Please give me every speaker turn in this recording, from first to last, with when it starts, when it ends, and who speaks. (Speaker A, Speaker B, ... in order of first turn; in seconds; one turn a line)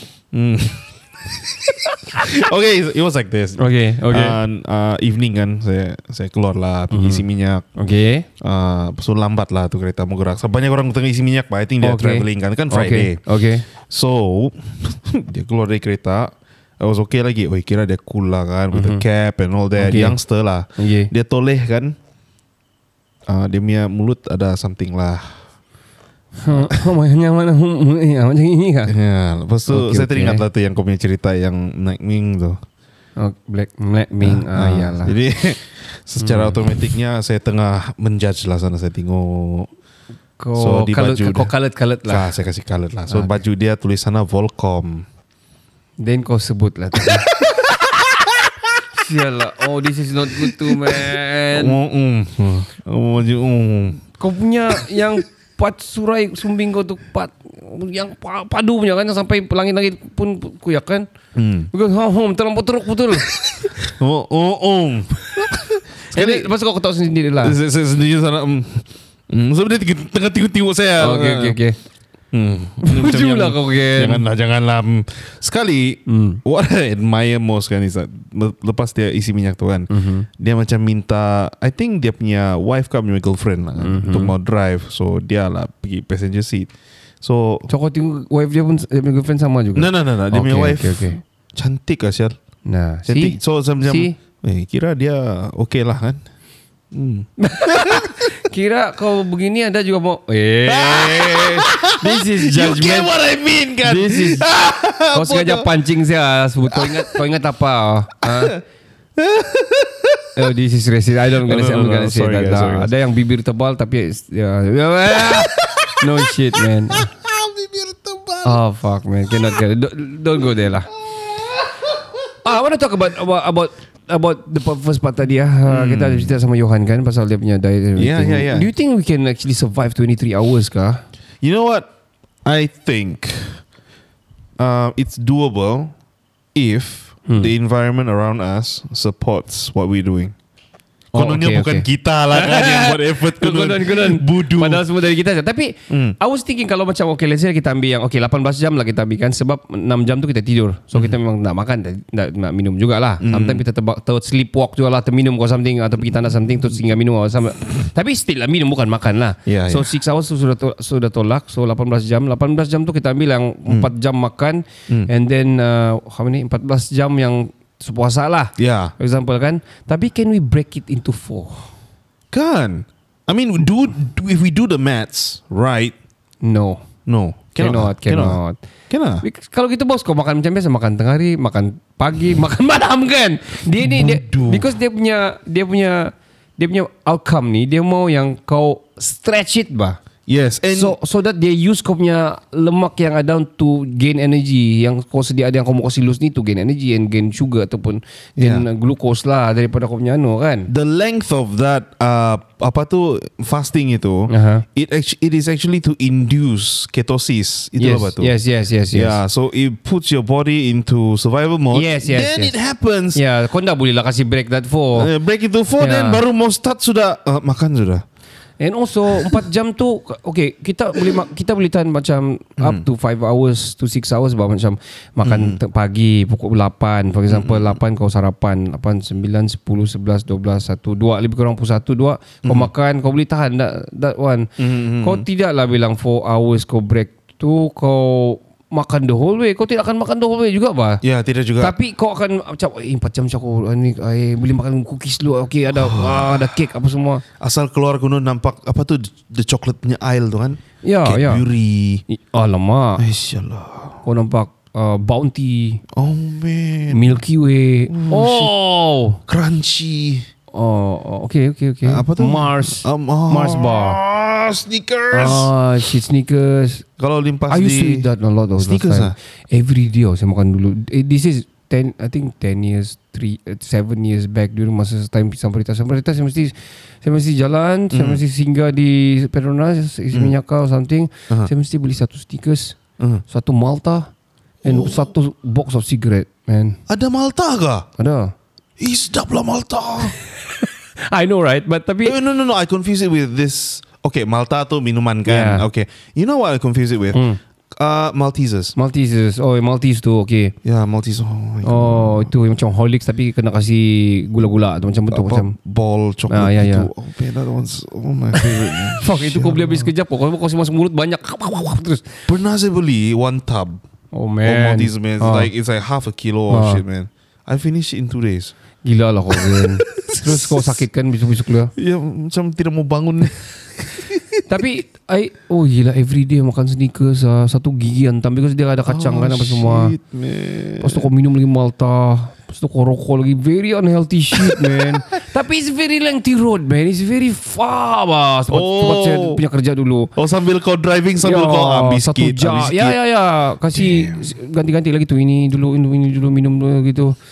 Speaker A: 0.3-7.7
Speaker B: 3.6-4.4
Speaker B: 6.9-8.2
Speaker A: 8.4-13.2
Speaker B: 11.8-13.7
Speaker A: 13.8-21.9
Speaker B: 18.7-19.0
Speaker B: 19.8-20.2
Speaker B: 20.8-21.1
Speaker A: 23.3-25.4
Speaker B: 26.4-28.9
Speaker A: 28.9-32.6
Speaker B: 29.7-30.4
Speaker B: 33.2-35.1
Speaker A: 34.2-39.7
Speaker B: 36.2-36.6
Speaker B: 40.4-42.3
Speaker A: 40.5-41.5
Speaker A: 42.1-45.0
Speaker B: 43.1-43.4
Speaker B: 46.0-47.3
Speaker A: 47.4-48.5
Speaker B: 48.9-51.8
Speaker A: 50.5-51.0
Speaker A: 51.5-54.0
Speaker B: 54.2-61.0
Speaker A: 61.3-61.7
Speaker B: 61.7-63.3
Speaker A: 63.4-66.5
Speaker B: 66.1-67.5
Speaker A: 67.4-71.6
Speaker B: 71.0-71.8
Speaker A: 72.3-87.7
Speaker B: 72.8-74.2
Speaker B: 76.1-76.4
Speaker B: 79.9-80.3
Speaker B: 83.8-84.3
Speaker B: 87.7-91.2
Speaker A: 89.7-92.4
Speaker B: 92.7-94.1
Speaker A: 93.0-96.2
Speaker A: 96.9-98.1
Speaker B: 97.4-103.1
Speaker A: 100.7-105.7
Speaker B: 103.8-104.5
Speaker B: 105.1-108.6
Speaker A: 106.7-107.1
Speaker A: 108.2-108.6
Speaker A: 109.2-110.2
Speaker B: 110.3-117.1
Speaker A: 111.4-112.9
Speaker A: 115.1-118.6
Speaker B: 118.4-120.9
Speaker A: 121.0-122.3
Speaker B: 122.4-131.0
Speaker A: 125.7-126.3
Speaker A: 128.0-128.7
Speaker A: 131.4-131.9
Speaker A: 132.4-133.6
Speaker A: 134.6-135.9
Speaker A: 136.5-140.3
Speaker A: 141.1-144.8
Speaker B: 141.1-171.7
Speaker A: 145.9-146.2
Speaker A: 153.2-153.6
Speaker A: 159.4-159.9
Speaker A: 168.6-168.9
Speaker A: 172.3-175.9
Speaker B: 176.4-176.8
Speaker A: 177.1-179.2
Speaker B: 177.6-178.6
Speaker B: 179.2-190.0
Speaker A: 183.7-184.7
Speaker A: 190.3-190.9
Speaker B: 190.7-200.7
Speaker A: 198.4-198.6
Speaker A: 200.7-208.3
Speaker B: 204.3-204.6
Speaker B: 207.8-209.2
Speaker A: 208.9-213.2
Speaker B: 211.7-212.6
Speaker B: 213.1-215.1
Speaker A: 214.9-218.0
Speaker B: 215.8-216.2
Speaker B: 218.6-234.5
Speaker A: 219.2-219.4
Speaker A: 222.6-222.8
Speaker A: 225.2-225.6
Speaker A: 227.3-227.8
Speaker A: 232.4-232.7
Speaker A: 234.6-235.2
Speaker B: 235.0-241.0
Speaker A: 241.0-241.8
Speaker B: 241.6-247.2
Speaker A: 245.7-246.6
Speaker A: 247.4-252.0
Speaker B: 250.8-251.4
Speaker B: 252.1-253.0
Speaker A: 253.0-254.0
Speaker B: 254.0-255.8
Speaker A: 255.9-257.2
Speaker B: 256.9-259.2
Speaker A: 257.9-258.5
Speaker A: 259.3-260.3
Speaker B: 260.5-264.0
Speaker A: 261.9-265.9
Speaker B: 265.1-266.8
Speaker A: 267.0-268.1
Speaker B: 267.5-282.8
Speaker A: 268.6-269.1
Speaker A: 277.9-278.2
Speaker A: 283.0-283.2
Speaker B: 283.3-284.1
Speaker A: 284.6-285.1
Speaker B: 284.6-286.8
Speaker A: 286.9-287.9
Speaker B: 288.0-288.3
Speaker A: 288.8-290.2
Speaker B: 291.0-292.1
Speaker A: 292.0-297.2
Speaker B: 295.2-295.6
Speaker B: 297.1-297.4
Speaker A: 297.7-298.7
Speaker B: 298.8-300.5
Speaker A: 300.6-302.3
Speaker B: 301.6-305.5
Speaker A: 305.1-309.9
Speaker B: 306.3-306.9
Speaker B: 308.4-312.1
Speaker A: 312.3-313.8
Speaker B: 314.1-315.5
Speaker A: 314.4-318.5
Speaker B: 316.5-316.8
Speaker B: 318.8-321.7
Speaker A: 319.3-320.8
Speaker A: 321.8-324.4
Speaker B: 324.5-329.9
Speaker A: 328.9-331.1
Speaker B: 330.8-340.1
Speaker A: 334.3-334.8
Speaker A: 338.5-339.4
Speaker A: 340.1-343.0
Speaker B: 341.2-347.1
Speaker A: 343.7-344.3